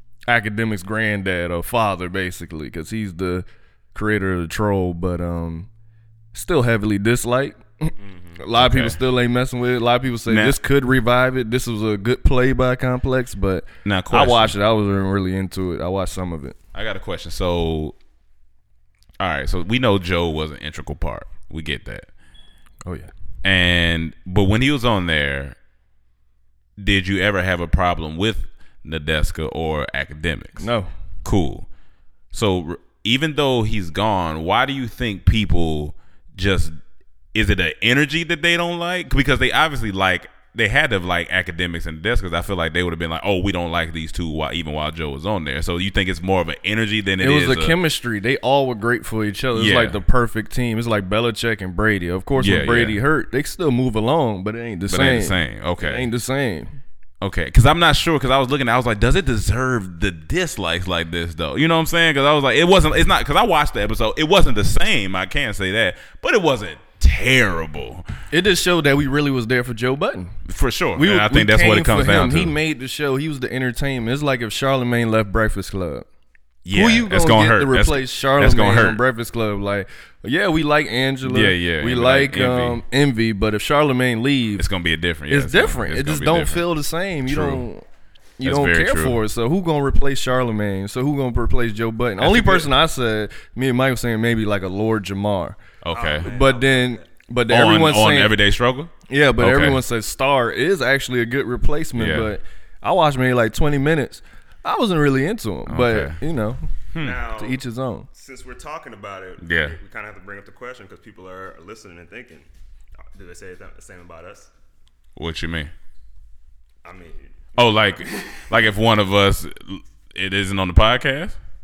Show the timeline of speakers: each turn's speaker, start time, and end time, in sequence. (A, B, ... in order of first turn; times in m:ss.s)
0:00.3-0:05.7 A
0:06.3-0:16.6 A
0:08.6-0:09.0 B
0:10.3-0:10.6 B
0:13.8-0:14.6 B
0:16.7-0:18.0 B
0:19.2-0:22.1 B
0:22.8-0:23.1 A
0:23.4-0:25.6 B
0:26.8-0:30.7 B
0:30.6-0:30.9 A
0:31.2-0:31.7 B
0:32.3-0:36.8 B
0:37.3-0:47.8 B
0:47.2-0:56.8 A
0:49.5-0:50.0 B
0:52.4-0:53.0 B
0:54.9-0:56.1 B
0:57.2-1:08.1 B
1:08.3-1:10.3 A
1:10.5-1:12.6 B
1:11.0-1:16.1 A
1:16.6-1:19.0 B
1:16.7-1:24.7 A
1:21.2-1:22.8 B
1:24.6-1:26.7 B
1:25.3-1:27.8 A
1:27.3-1:27.6 B
1:28.4-1:35.6 A
1:28.4-1:29.2 B
1:32.2-1:32.7 B
1:35.8-1:36.3 B
1:35.9-1:37.0 C
1:36.2-1:38.3 A
1:37.5-1:39.8 B
1:39.1-1:46.7 A
1:42.0-1:42.3 B
1:45.7-1:46.2 B
1:46.9-1:47.2 B
1:47.0-1:47.6 C
1:47.3-1:48.1 A
1:48.1-1:52.4 C
1:49.4-1:49.8 B
1:53.1-1:54.5 C
1:55.2-1:55.7 B
1:56.8-1:58.4 C
1:57.6-2:01.4 B